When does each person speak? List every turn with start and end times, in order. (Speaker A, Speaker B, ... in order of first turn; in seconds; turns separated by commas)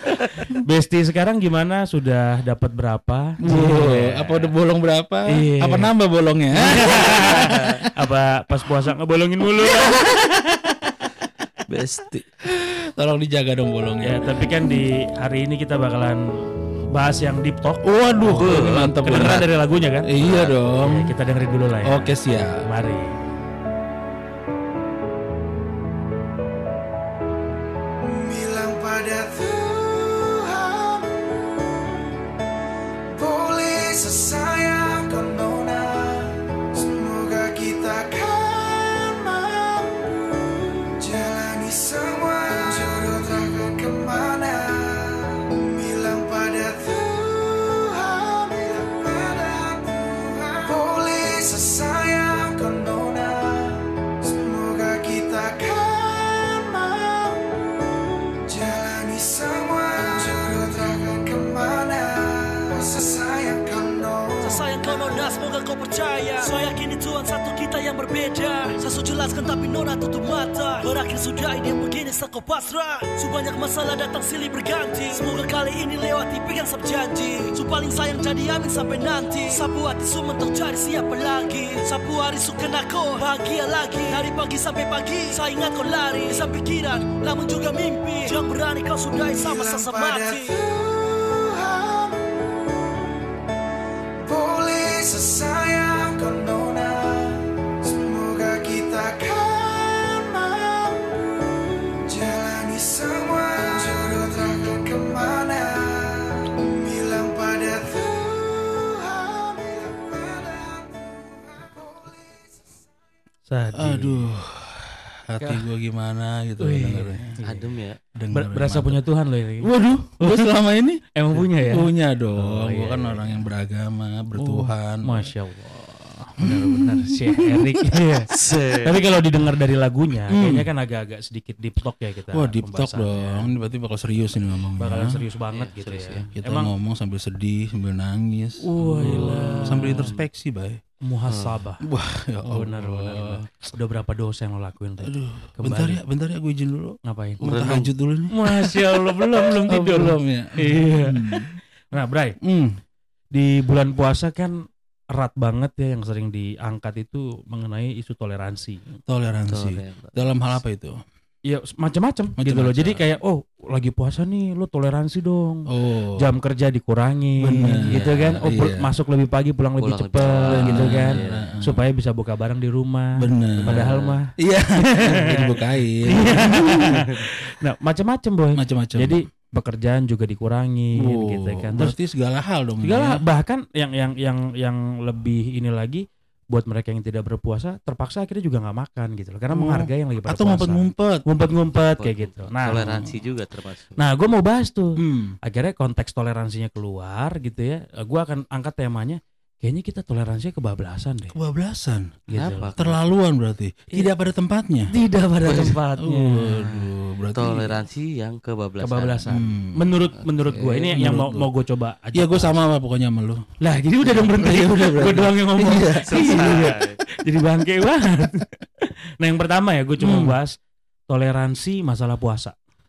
Speaker A: 0.2-4.5, Speaker B: 3.4-7.8, Speaker A: 5.3-5.9, Speaker A: 6.5-10.2, Speaker B: 9.8-10.2, Speaker C: 11.7-12.2, Speaker B: 12.5-14.8, Speaker A: 14.0-16.2, Speaker A: 16.9-20.1, Speaker B: 17.8-19.5, Speaker C: 18.3-19.5, Speaker B: 20.1-21.1, Speaker C: 20.2-20.6, Speaker A: 20.8-22.1, Speaker B: 21.9-22.6, Speaker A: 22.7-23.2, Speaker D: 28.0-32.2, Speaker D: 33.1-65.1, Speaker E: 64.4-90.6, Speaker D: 89.2-93.2, Speaker D: 94.2-112.8, Speaker A: 113.5-114.3, Speaker B: 113.8-117.3, Speaker A: 115.4-115.7, Speaker A: 116.6-117.7, Speaker C: 117.4-118.0, Speaker B: 118.2-119.0, Speaker A: 118.3-120.5, Speaker B: 119.6-125.3, Speaker A: 121.1-123.4, Speaker A: 124.4-133.5, Speaker B: 126.4-128.1, Speaker C: 128.3-129.0, Speaker B: 130.3-130.7, Speaker B: 132.3-135.2, Speaker A: 134.8-136.7, Speaker C: 135.5-136.3, Speaker B: 136.3-140.8, Speaker A: 138.6-140.1, Speaker C: 139.0-140.2, Speaker A: 141.0-141.8, Speaker C: 141.3-141.6, Speaker B: 141.8-143.4, Speaker A: 142.5-146.0, Speaker B: 145.0-151.5, Speaker A: 147.0-147.4, Speaker C: 147.4-147.9, Speaker A: 148.3-152.4, Speaker B: 152.4-152.8, Speaker A: 153.3-154.6, Speaker A: 155.1-159.0, Speaker B: 159.1-161.0, Speaker C: 159.5-160.1, Speaker A: 161.5-181.9, Speaker B: 162.4-163.1, Speaker B: 165.7-166.2, Speaker B: 167.4-168.9, Speaker C: 167.9-168.5, Speaker C: 169.8-171.5, Speaker B: 170.4-171.8, Speaker B: 173.2-177.1, Speaker C: 173.7-174.2, Speaker B: 178.6-179.2, Speaker B: 181.0-183.2, Speaker A: 182.8-193.1, Speaker B: 189.5-191.2, Speaker C: 192.0-194.0, Speaker A: 194.0-201.3, Speaker B: 195.0-195.4, Speaker B: 201.3-202.2, Speaker A: 202.3-202.7, Speaker C: 202.4-203.1, Speaker B: 202.8-204.9, Speaker A: 204.9-206.9, Speaker C: 205.5-205.8, Speaker B: 206.0-207.8, Speaker C: 207.3-209.3, Speaker A: 208.8-212.6, Speaker B: 209.3-210.0, Speaker C: 210.2-211.0, Speaker B: 210.9-211.5, Speaker B: 212.2-213.5, Speaker A: 213.6-220.6, Speaker B: 214.3-216.6, Speaker C: 216.1-217.0, Speaker B: 220.0-220.4, Speaker A: 221.1-222.5